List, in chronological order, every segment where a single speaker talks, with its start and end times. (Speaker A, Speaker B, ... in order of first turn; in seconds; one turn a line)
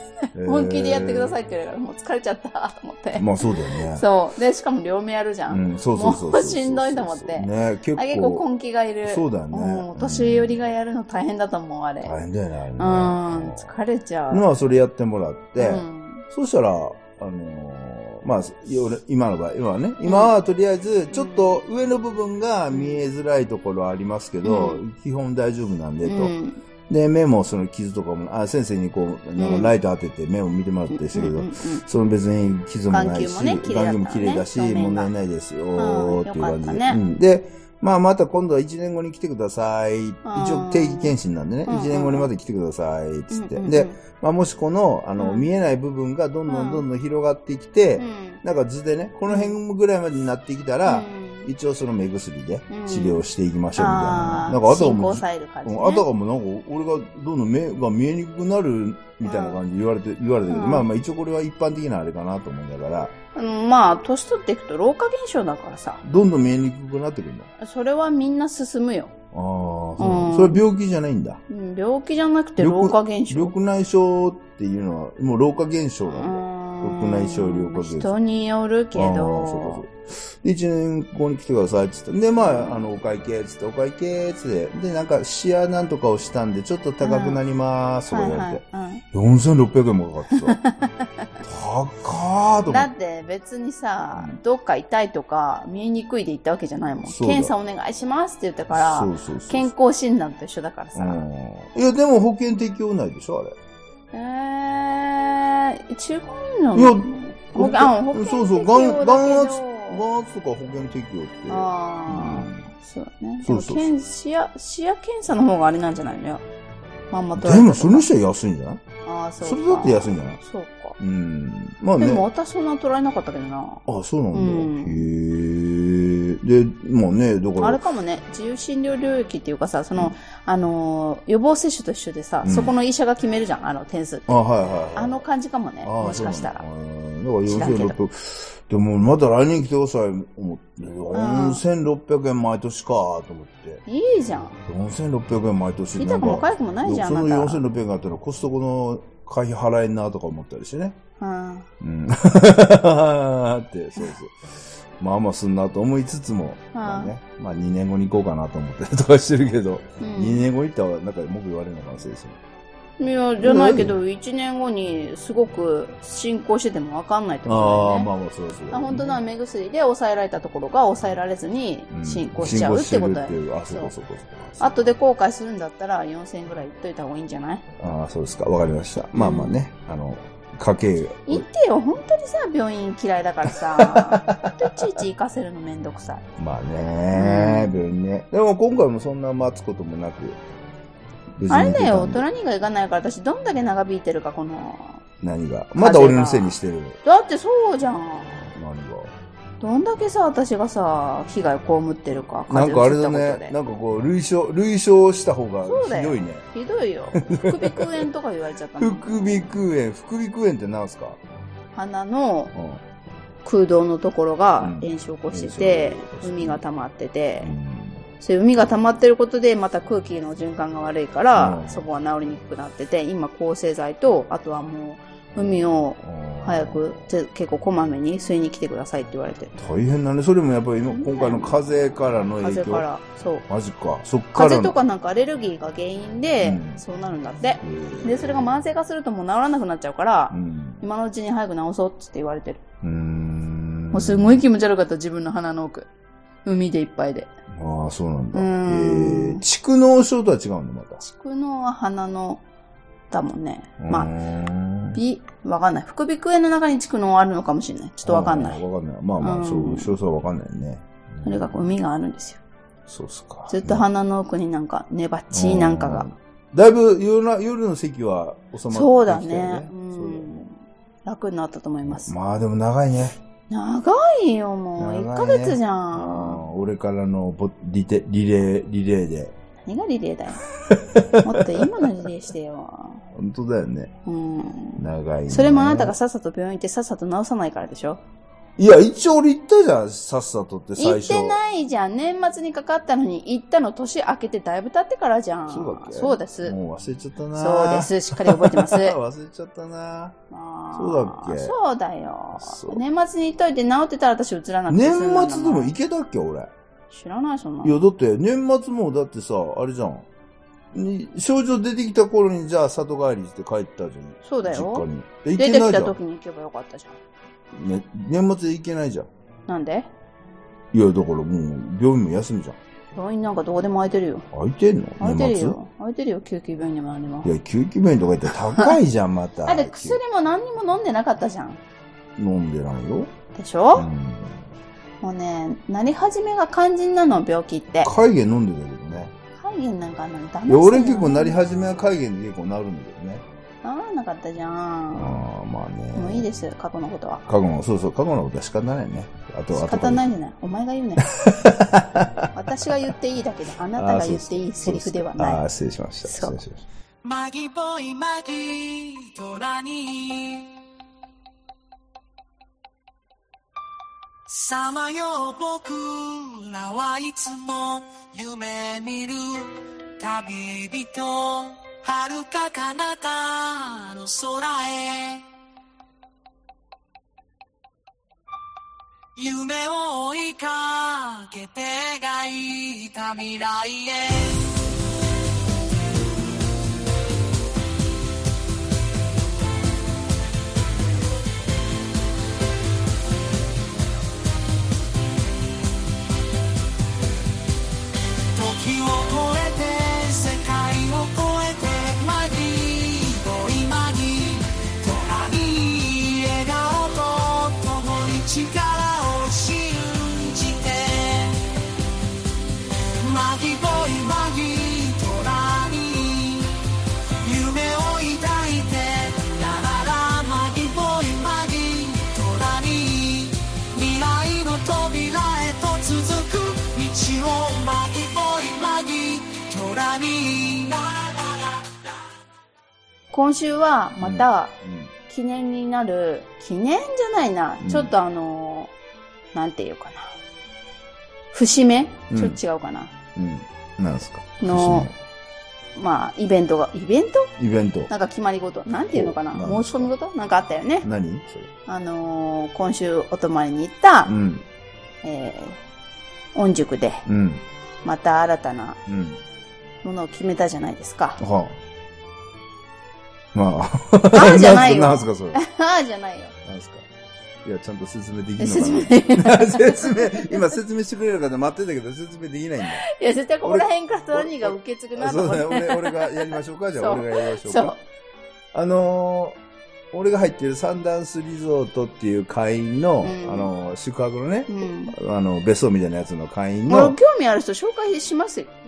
Speaker A: 0.3-1.4
Speaker B: 0.4-12.2
Speaker A: 3.2-4.0
Speaker A: 5.5-8.4
Speaker A: 9.0-10.6
Speaker A: 12.0-13.7
Speaker B: 12.8-14.4
Speaker A: 14.3-26.3
Speaker B: 15.6-16.2
Speaker B: 20.1-20.3
Speaker B: 21.1-21.6
Speaker B: 22.7-23.0
Speaker B: 24.4-24.8
Speaker B: 26.0-26.6
Speaker A: 26.9-63.1
Speaker B: 29.4-29.7
Speaker B: 30.9-31.8
Speaker B: 32.9-35.1
Speaker B: 35.8-37.0
Speaker B: 40.2-41.1
Speaker B: 41.7-42.3
Speaker B: 43.3-44.0
Speaker B: 45.2-45.5
Speaker B: 46.5-46.8
Speaker B: 48.0-48.4
Speaker B: 49.3-49.6
Speaker B: 50.9-51.5
Speaker B: 52.7-53.2
Speaker B: 53.8-56.0
Speaker B: 59.2-59.6
Speaker B: 60.5-60.9
Speaker B: 63.4-66.0
Speaker A: 66.0-67.5
Speaker B: 67.6-69.1
Speaker A: 69.3-71.4
Speaker B: 70.0-70.6
Speaker B: 71.5-73.5
Speaker A: 72.6-78.2
Speaker B: 76.1-79.8
Speaker A: 78.9-90.6
Speaker B: 82.4-82.8
Speaker B: 87.0-87.4
Speaker B: 88.1-89.0
Speaker B: 90.3-91.3
Speaker A: 91.4-92.9
Speaker B: 92.7-101.3
Speaker A: 97.0-97.5
Speaker A: 98.7-99.7
Speaker A: 101.0-103.6
Speaker B: 104.1-110.0
Speaker A: 106.8-112.7
Speaker B: 111.5-116.4
Speaker A: 113.4-113.9
Speaker B: 117.1-118.1
Speaker A: 117.4-118.8
Speaker B: 119.0-121.0
Speaker A: 119.4-120.4
Speaker A: 121.0-122.3
Speaker B: 122.0-125.1
Speaker A: 123.9-127.8
Speaker B: 127.6-134.3
Speaker A: 132.4-132.7
Speaker A: 134.3-135.2
Speaker B: 134.9-136.6
Speaker A: 135.8-143.8
Speaker B: 137.5-138.0
Speaker B: 141.1-141.6
Speaker B: 143.9-144.6
Speaker A: 144.7-151.0
Speaker B: 145.9-147.6
Speaker B: 151.2-151.7
Speaker A: 151.8-162.4
Speaker B: 156.7-157.1
Speaker B: 160.0-160.4
Speaker B: 163.0-168.1
Speaker A: 163.4-164.0
Speaker A: 167.5-169.2
Speaker B: 168.7-173.9
Speaker A: 171.9-174.8
Speaker B: 174.6-177.6
Speaker A: 177.8-181.5
Speaker B: 179.2-179.6
Speaker B: 181.3-186.2
Speaker A: 183.5-184.7
Speaker A: 186.4-190.4
Speaker B: 187.1-187.8
Speaker A: 191.4-192.2
Speaker B: 191.5-195.0
Speaker A: 195.2-197.0
Speaker B: 195.8-198.5
Speaker A: 198.5-199.1
Speaker B: 199.6-203.6
Speaker A: 202.5-206.4
Speaker B: 205.7-209.6
Speaker A: 207.2-208.1
Speaker A: 208.8-211.2
Speaker B: 211.8-212.5
Speaker A: 212.5-212.8
Speaker B: 213.4-217.6
Speaker A: 214.6-216.6
Speaker A: 217.4-218.1
Speaker B: 218.2-229.5
Speaker A: 221.3-221.9
Speaker A: 225.3-227.1
Speaker A: 229.6-232.9
Speaker B: 230.9-233.5
Speaker A: 233.5-234.8
Speaker B: 234.3-242.6
Speaker A: 236.4-236.8
Speaker A: 237.6-238.6
Speaker A: 240.3-240.8
Speaker A: 242.8-244.4
Speaker B: 243.9-245.9
Speaker B: 246.4-247.3
Speaker A: 247.5-251.0
Speaker B: 248.3-249.4
Speaker B: 251.0-252.4
Speaker B: 253.1-254.1
Speaker A: 253.8-255.0
Speaker B: 254.9-258.6
Speaker A: 258.1-261.5
Speaker B: 259.2-260.0
Speaker B: 261.2-262.4
Speaker A: 262.9-263.9
Speaker B: 263.5-266.1
Speaker A: 265.3-270.5
Speaker B: 268.7-272.1
Speaker A: 271.9-273.2
Speaker B: 273.5-276.4
Speaker A: 274.8-279.4
Speaker B: 279.6-280.4
Speaker A: 280.7-282.1
Speaker B: 281.2-283.0
Speaker A: 283.1-283.9
Speaker B: 284.1-288.0
Speaker A: 284.8-285.9
Speaker A: 288.6-291.4
Speaker B: 290.8-296.6
Speaker A: 295.5-300.2
Speaker B: 297.4-299.0
Speaker B: 300.3-305.7
Speaker A: 300.7-301.6
Speaker A: 302.4-302.8
Speaker A: 304.7-306.5
Speaker B: 306.9-307.8
Speaker A: 307.6-310.1
Speaker A: 310.7-316.0
Speaker B: 314.2-317.0
Speaker A: 317.5-319.1
Speaker B: 319.5-319.9
Speaker A: 320.7-322.6
Speaker B: 322.9-324.3
Speaker A: 324.3-325.6
Speaker B: 325.0-327.3
Speaker A: 327.2-330.0
Speaker B: 329.5-331.6
Speaker A: 332.2-333.1
Speaker B: 333.4-333.9
Speaker A: 333.8-334.4
Speaker B: 335.0-337.9
Speaker A: 337.8-339.1
Speaker B: 339.4-341.4
Speaker A: 340.5-343.2
Speaker B: 343.6-345.1
Speaker A: 345.0-346.3
Speaker B: 345.9-347.2
Speaker A: 347.3-350.0
Speaker B: 349.5-351.1
Speaker A: 351.1-352.3
Speaker B: 352.3-355.4
Speaker A: 353.8-356.6
Speaker B: 356.1-356.4
Speaker C: 357.0-360.5
Speaker C: 364.3-375.3
Speaker C: 379.2-384.5
Speaker C: 398.3-411.4
Speaker C: 413.0-416.6
Speaker C: 417.2-431.9
Speaker B: 433.1-434.6
Speaker A: 434.0-434.9
Speaker B: 435.1-438.7
Speaker A: 437.6-437.9
Speaker B: 439.3-440.2
Speaker B: 441.3-442.9
Speaker A: 442.1-442.4
Speaker A: 443.1-444.9
Speaker B: 444.4-444.9
Speaker B: 445.8-447.3
Speaker A: 447.4-447.9
Speaker B: 447.9-450.9
Speaker A: 448.9-449.9
Speaker A: 450.8-451.5
Speaker B: 451.7-454.1
Speaker A: 454.1-454.4
Speaker B: 455.0-455.6
Speaker B: 456.3-457.0
Speaker A: 457.1-457.4
Speaker B: 457.8-458.8
Speaker A: 458.9-459.2
Speaker B: 459.8-461.2
Speaker A: 461.2-461.6
Speaker A: 463.3-465.4
Speaker B: 464.1-466.4
Speaker A: 466.4-466.9
Speaker A: 467.4-472.9
Speaker B: 468.4-470.4
Speaker B: 472.7-477.8
Speaker A: 473.4-477.8
Speaker A: 478.5-479.4
Speaker A: 479.9-487.0
Speaker B: 483.0-483.5
Speaker B: 484.5-484.9
Speaker B: 486.7-488.5